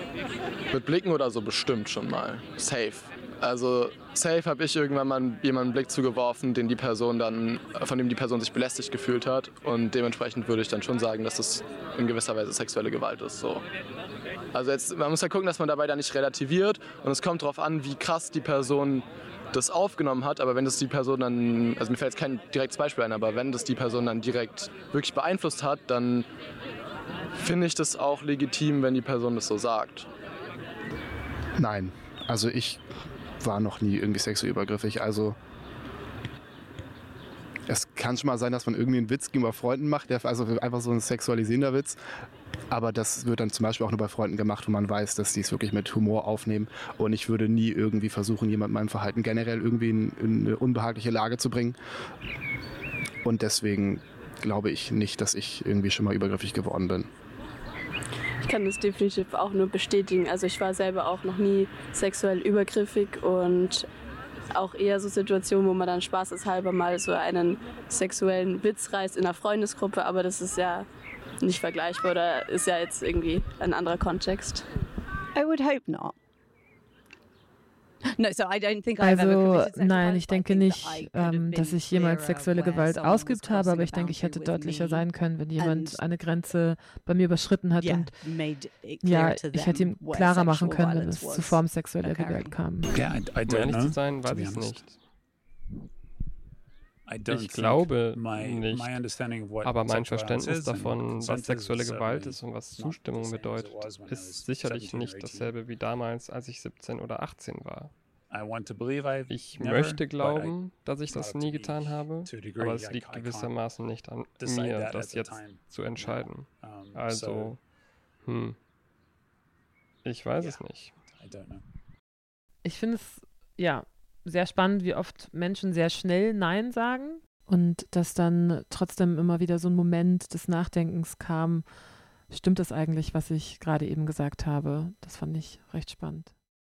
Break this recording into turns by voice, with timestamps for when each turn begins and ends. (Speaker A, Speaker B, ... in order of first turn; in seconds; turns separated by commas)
Speaker A: 0.7-13.6, Speaker A: 14.5-26.3, Speaker A: 27.4-30.1, Speaker B: 31.6-32.8, Speaker B: 33.4-35.4, Speaker B: 37.7-42.0, Speaker B: 42.7-51.8, Speaker B: 53.2-57.1, Speaker C: 58.4-63.9, Speaker C: 64.5-70.9, Speaker C: 71.4-74.6, Speaker D: 75.3-76.2, Speaker D: 78.2-85.1, Speaker E: 79.0-88.1, Speaker D: 85.6-86.0, Speaker D: 87.8-92.6, Speaker E: 89.0-92.9, Speaker F: 92.9-94.8, Speaker G: 93.5-95.0, Speaker F: 97.1-105.5, Speaker G: 97.3-99.0, Speaker G: 99.6-107.9, Speaker F: 108.3-110.6, Speaker G: 109.3-117.6, Speaker F: 111.1-113.5, Speaker F: 114.4-117.6, Speaker G: 118.2-118.6, Speaker G: 120.0-120.9, Speaker F: 121.2-121.6, Speaker E: 122.6-131.6, Speaker E: 132.3-136.3